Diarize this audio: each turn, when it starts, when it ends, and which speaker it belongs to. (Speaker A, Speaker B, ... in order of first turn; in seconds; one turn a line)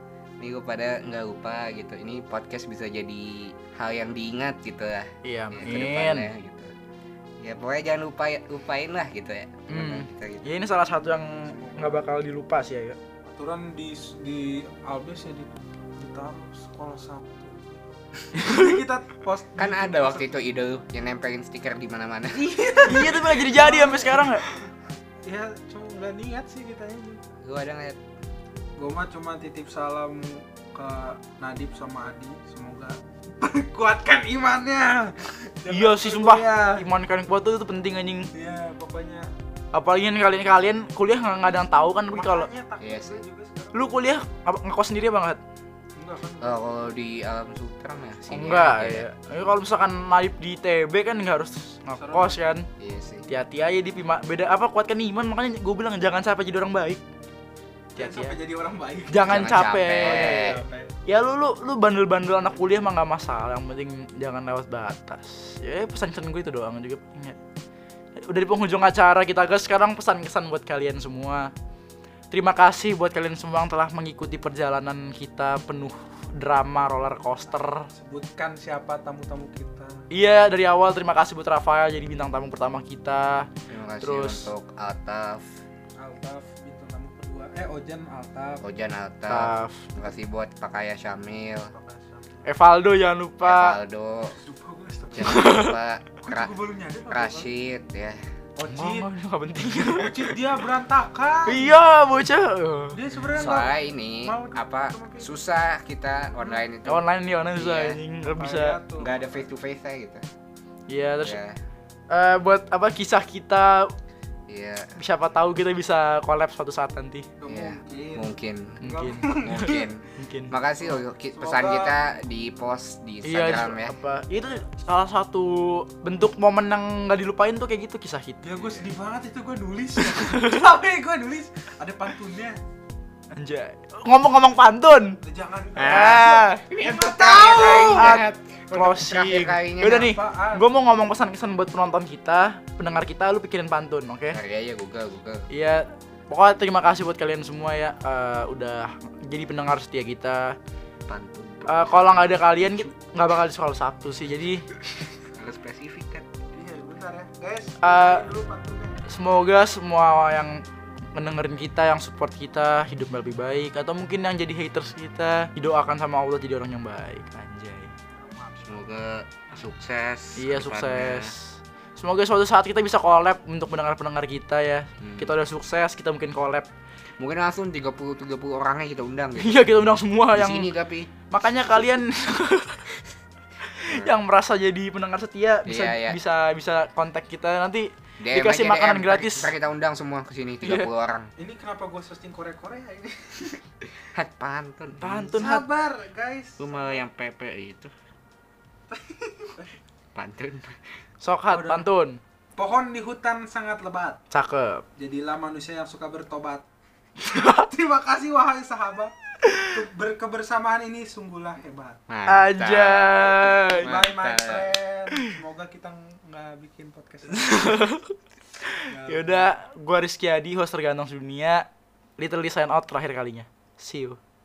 Speaker A: 0.4-6.7
Speaker B: 5.2-6.3
Speaker A: 7.4-10.5
Speaker B: 9.7-13.0
Speaker C: 11.4-12.1
Speaker C: 13.3-20.3
Speaker B: 18.4-18.8
Speaker A: 19.6-22.5
Speaker C: 22.3-24.7
Speaker B: 22.9-24.4
Speaker C: 25.2-27.2
Speaker A: 27.4-28.0
Speaker C: 28.8-36.9
Speaker B: 35.7-38.3
Speaker C: 38.3-39.3
Speaker B: 39.7-42.5
Speaker C: 42.1-43.9
Speaker A: 42.8-43.2
Speaker B: 43.7-45.4
Speaker C: 46.0-46.6
Speaker A: 46.4-49.1
Speaker B: 48.3-52.7
Speaker C: 51.9-52.4
Speaker A: 52.8-53.3
Speaker B: 53.3-57.0
Speaker C: 57.9-60.9
Speaker B: 58.0-58.4
Speaker B: 59.1-67.4
Speaker A: 59.2-60.6
Speaker B: 68.2-71.5
Speaker B: 72.3-77.9
Speaker C: 77.9-80.0
Speaker B: 80.1-83.5
Speaker A: 83.7-85.5
Speaker B: 84.0-84.5
Speaker C: 86.0-88.6
Speaker A: 88.6-91.7
Speaker B: 89.3-89.9
Speaker C: 91.7-92.5
Speaker B: 92.5-93.8
Speaker A: 93.4-94.3
Speaker C: 94.3-95.5
Speaker A: 95.1-96.5
Speaker B: 95.2-95.8
Speaker C: 96.2-97.5
Speaker A: 97.1-98.2
Speaker C: 98.6-99.1
Speaker B: 98.7-100.3
Speaker C: 99.8-101.7
Speaker B: 101.5-103.0
Speaker C: 102.9-105.3
Speaker A: 103.3-108.0
Speaker B: 106.9-108.8
Speaker C: 108.4-109.4
Speaker A: 109.0-110.2
Speaker B: 110.9-111.4
Speaker A: 111.2-111.6
Speaker B: 112.1-113.9
Speaker A: 114.5-115.0
Speaker B: 115.0-117.3
Speaker C: 117.4-118.3
Speaker A: 117.5-118.8
Speaker B: 118.8-120.5
Speaker C: 118.8-119.8
Speaker A: 119.4-123.9
Speaker C: 121.3-122.0
Speaker B: 123.2-128.4
Speaker C: 128.4-132.6
Speaker B: 130.0-130.7
Speaker B: 133.3-135.2
Speaker C: 135.2-138.2
Speaker A: 135.8-140.2
Speaker B: 135.8-136.6
Speaker B: 137.6-144.4
Speaker C: 139.9-140.7
Speaker A: 144.3-145.5
Speaker B: 145.5-150.6
Speaker A: 151.1-152.7
Speaker B: 151.7-154.7
Speaker A: 155.3-156.3
Speaker C: 156.5-159.0
Speaker B: 157.8-158.3
Speaker B: 159.1-160.6
Speaker B: 161.2-167.9
Speaker C: 168.1-168.8
Speaker A: 168.7-171.3
Speaker B: 170.4-176.7
Speaker A: 175.0-175.3
Speaker A: 177.2-179.7
Speaker B: 179.4-180.7
Speaker A: 180.3-181.1
Speaker B: 181.3-182.9
Speaker B: 183.7-189.5
Speaker A: 183.8-184.1
Speaker A: 185.7-186.2
Speaker A: 188.2-191.3
Speaker B: 190.6-190.9
Speaker C: 191.4-193.6
Speaker A: 194.2-195.5
Speaker B: 195.0-195.7
Speaker C: 195.4-196.7
Speaker A: 196.6-197.9
Speaker C: 198.9-199.7
Speaker A: 200.2-200.8
Speaker B: 201.2-202.2
Speaker C: 201.5-201.9
Speaker C: 202.6-204.2
Speaker B: 204.3-204.8
Speaker C: 205.0-206.7
Speaker B: 207.2-207.7
Speaker C: 207.6-212.0
Speaker B: 209.4-209.8
Speaker A: 212.1-214.7
Speaker B: 212.3-214.0
Speaker C: 213.8-217.8
Speaker B: 217.3-221.7
Speaker C: 218.9-219.5
Speaker B: 222.2-224.2